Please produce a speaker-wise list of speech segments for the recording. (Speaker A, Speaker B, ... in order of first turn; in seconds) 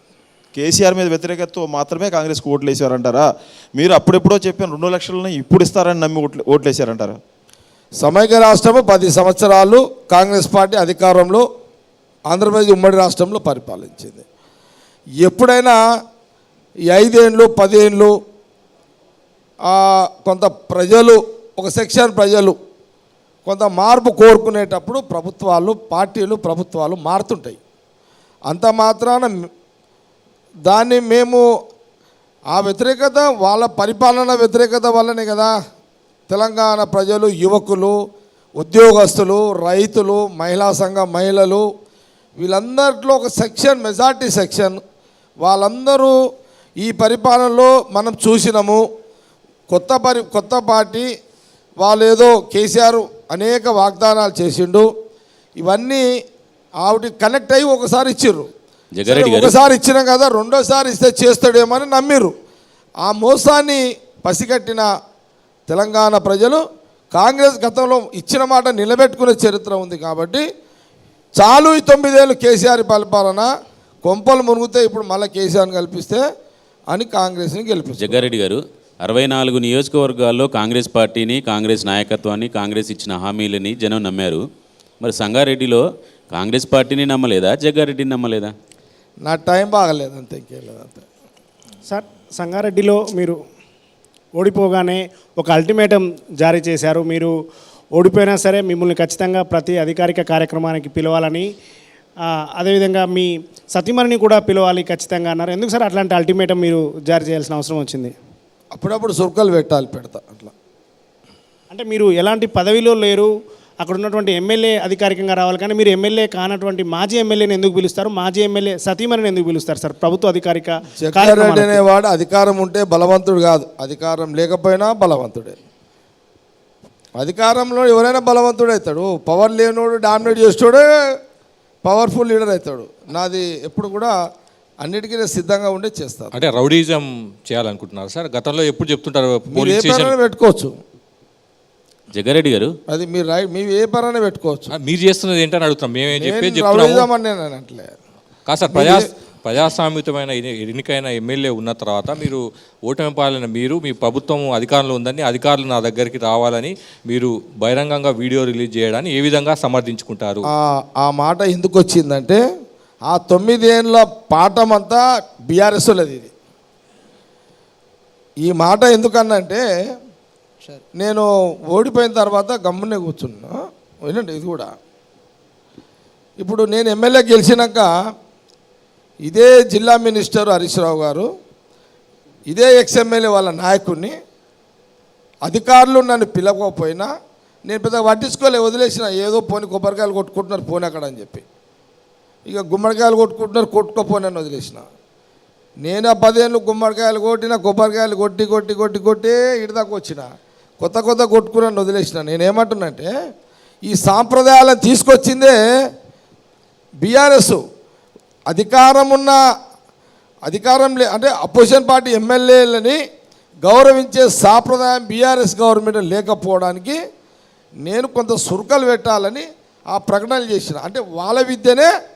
Speaker A: 0.6-7.2
Speaker B: 8.0-11.4, 12.3-14.2, 15.2-15.8, 16.9-18.1, 19.7-22.6, 23.4-27.6, 28.5-29.3, 30.7-31.4, 32.5-35.5, 36.3-38.0, 38.6-41.6, 42.4-44.8, 45.4-46.1, 46.8-48.8, 49.7-51.1, 51.8-54.9, 55.6-56.0, 56.8-58.5, 59.1-62.3, 63.0-64.9, 65.7-66.6, 67.1-70.4, 71.4-73.5, 74.0-76.2, 76.9-78.3, 89.2-91.0, 108.7-110.5, 121.0-125.6, 127.2-130.8, 131.8-134.1, 134.8-136.3, 139.5-140.7, 142.9-144.7, 146.2-147.9, 148.7-149.1, 160.5-162.4, 163.1-166.3, 168.4-169.6, 171.0-173.5, 174.1-174.7, 176.4-177.9, 179.2-181.3, 182.5-184.1, 185.4-187.1, 187.7-191.4, 192.5-194.8, 195.8-200.3, 200.8-203.1, 203.8-205.6, 207.0-207.6, 208.5-209.4, 210.5-213.0, 213.6-217.0, 217.8-221.9
Speaker C: 59.0-59.6, 78.0-84.4, 85.0-88.5, 142.1-142.7
Speaker D: 91.9-93.4, 94.4-97.3, 98.0-101.5, 102.6-108.1, 111.7-113.3, 113.8-121.8
Speaker E: 136.3-140.1, 144.7-147.1, 148.5-160.5